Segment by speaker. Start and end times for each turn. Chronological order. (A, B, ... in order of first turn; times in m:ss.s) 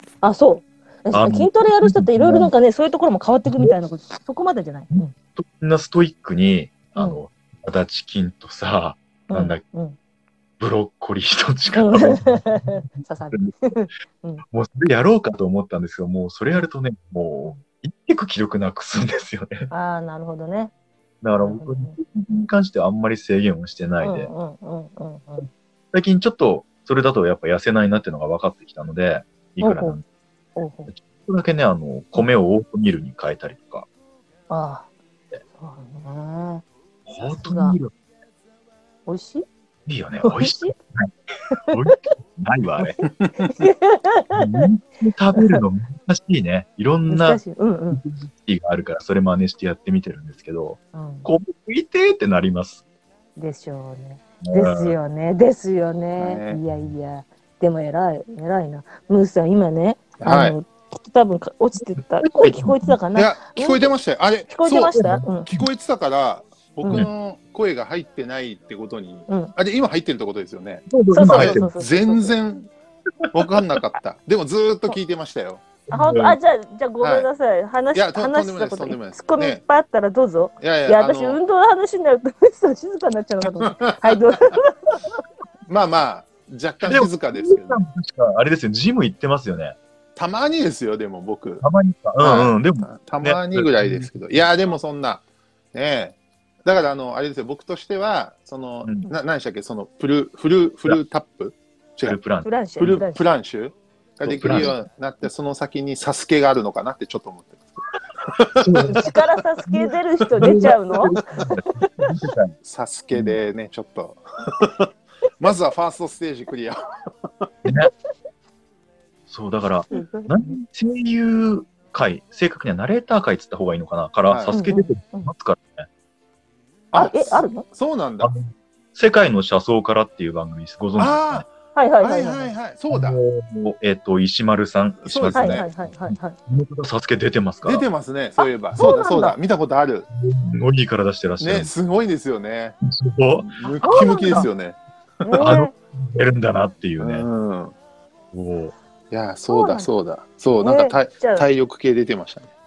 0:00.2-0:05.1 A
0:01.1-0:02.5 B
0:04.9-0:09.6 B
0:09.3-0:10.0 A
0:10.6-0:12.5 B
0:11.7-0:14.4 A
0:14.5-0:19.7 B
0:19.7-0:20.7 A
0:21.2-0:24.3 B
0:21.4-0:22.0 A
0:24.0-0:25.5 A
0:25.9-0:30.0 B
0:29.6-0:30.0 A
0:30.6-0:30.9 A
0:30.9-0:33.9 B
0:34.5-0:34.9 A
0:35.6-0:36.6 A
0:37.1-0:37.9 B
0:37.2-0:37.8 A
0:39.0-0:39.4 A
0:39.8-0:41.1 B
0:40.2-0:40.7 A
0:41.6-0:42.1 A
0:41.7-0:43.0 B
0:42.8-0:44.7 A
0:44.3-0:47.4 B
0:45.3-0:45.6 A
0:47.1-0:48.0 A
0:47.9-0:52.8 B
0:50.9-0:51.3 A
0:53.4-1:03.9 A
0:54.4-0:55.0 B
0:56.2-0:56.6 C
1:00.2-1:00.6 C
1:02.2-1:02.9 B
1:03.1-1:12.7 C
1:04.5-1:05.5 A
1:05.0-1:05.6 B
1:10.9-1:11.7 B
1:11.1-1:12.4 A
1:13.3-1:15.7 C
1:15.9-1:25.0 A
1:15.9-1:16.4 B
1:17.0-1:17.3 C
1:17.9-1:19.6 C
1:20.6-1:21.4 C
1:23.6-1:24.4 C
1:25.7-1:27.8 C
1:26.8-1:29.8 B
1:30.2-1:31.6 C
1:31.6-1:34.1 B
1:32.2-1:42.2 C
1:42.0-1:43.0 B
1:42.4-1:43.2 A
1:42.8-1:47.7 C
1:44.2-1:44.7 B
1:48.2-1:49.1 C
1:48.6-1:49.1 B
1:48.8-1:51.9 A
1:49.7-1:52.5 B
1:52.6-1:54.9 C
1:53.1-1:53.4 B
1:55.4-1:56.8 C
1:57.6-1:57.9 B
1:59.3-2:05.9 B
1:59.9-2:00.6 A
2:04.3-2:04.6 C
2:04.5-2:05.3 A
2:06.9-2:08.3 C
2:06.9-2:07.6 A
2:08.2-2:11.4 B
2:11.0-2:11.5 C
2:11.7-2:12.5 A
2:12.0-2:13.2 C
2:12.9-2:17.9 B
2:15.0-2:15.7 C
2:15.3-2:16.4 A
2:17.6-2:20.1 C
2:18.4-2:19.4 A
2:20.2-2:21.7 B
2:21.4-2:22.8 C
2:22.8-2:24.4 B
2:23.4-2:25.6 C
2:23.8-2:24.5 A
2:25.2-2:25.7 A
2:25.4-2:27.3 B
2:27.0-2:27.7 C
2:28.3-2:28.7 B
2:29.1-2:32.5 C
2:29.5-2:29.9 A
2:30.6-2:31.4 A